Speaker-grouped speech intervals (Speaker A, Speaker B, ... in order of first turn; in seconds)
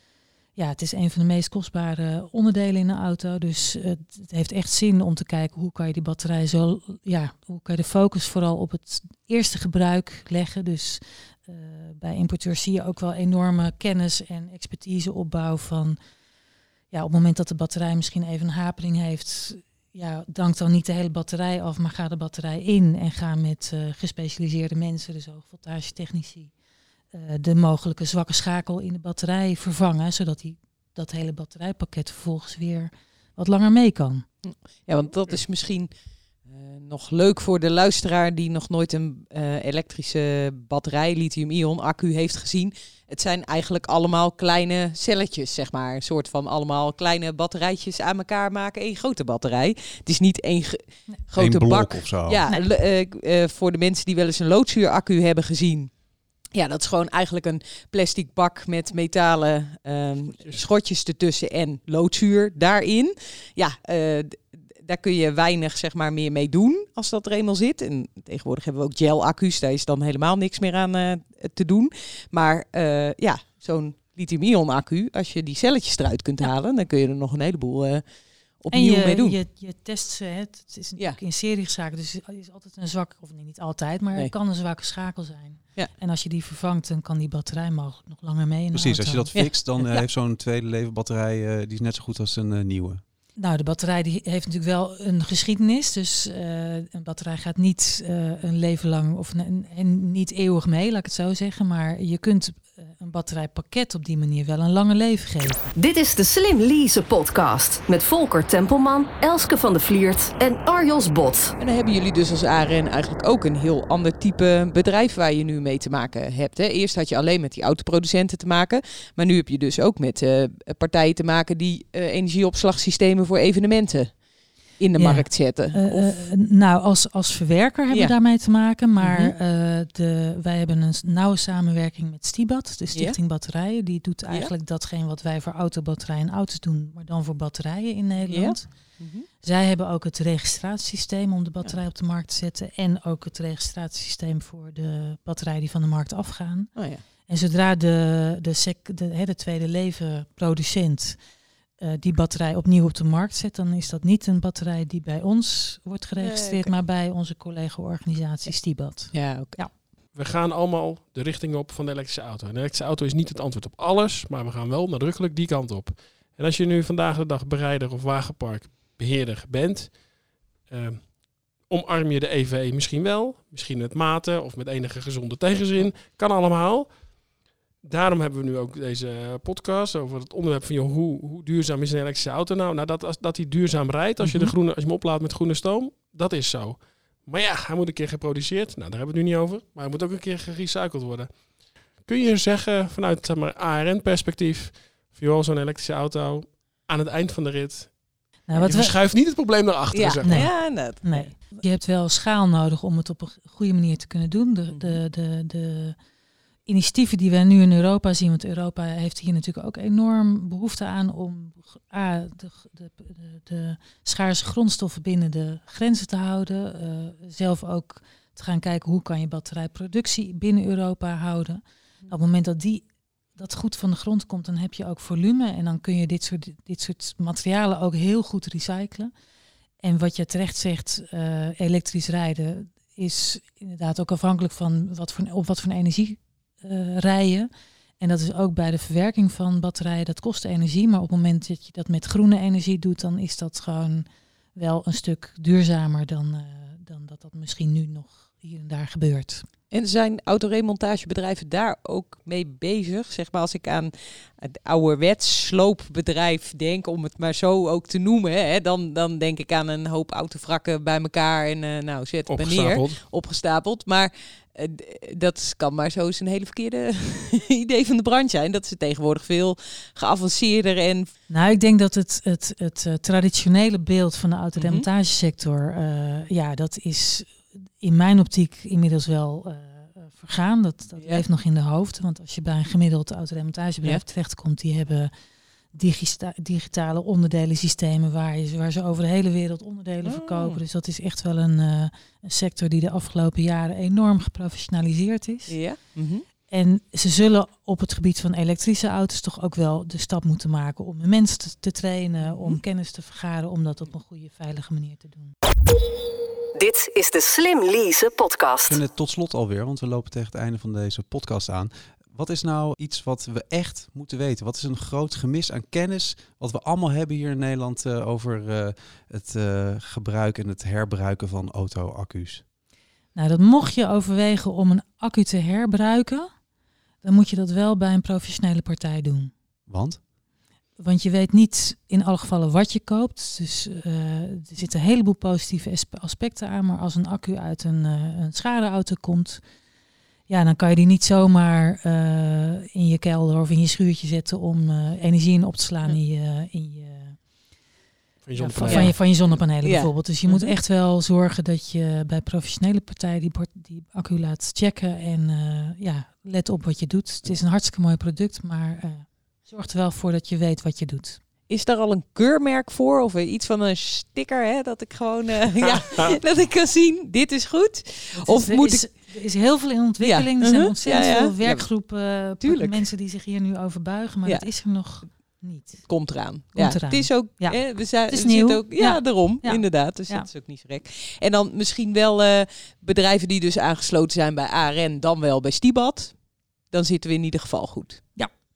Speaker A: 0.6-16.0, 16.9-26.5, 27.1-34.2, 78.7-90.1, 93.3-105.7, 125.0-138.7, 139.3-146.7, 147.3-151.2, 151.8-159.7, 184.2-184.5, 198.4-198.9, 200.2-206.0, 206.7-229.1, 229.8-237.5, 238.0-249.4, 271.3-285.1, 285.7-295.5, 296.5-305.3, 323.1-326.3, 327.0-329.3, 330.8-339.4, 340.3-347.2, 348.4-361.2, 368.2-375.9, 376.5-380.3
Speaker B: 34.4-35.9, 36.4-56.0, 56.5-78.0, 78.5-79.4, 111.6-126.2, 127.9-128.2, 129.0-129.3, 138.2-139.3, 146.7-147.0, 156.2-156.7, 159.1-159.8, 199.9-201.3, 204.7-205.0, 249.7-271.1, 274.6-274.9, 281.0-281.2, 290.0-290.6, 295.5-296.2, 302.2-302.6, 348.6-350.5, 361.5-368.9, 370.0-372.9, 375.8-386.2, 386.7-388.0
Speaker C: 51.3-52.4, 88.7-93.0, 308.6-322.4, 329.7-330.0
Speaker D: 60.2-60.6, 160.1-170.1, 170.6-200.5, 262.3-263.1, 348.2-348.9
Speaker E: 105.8-111.5, 306.5-308.8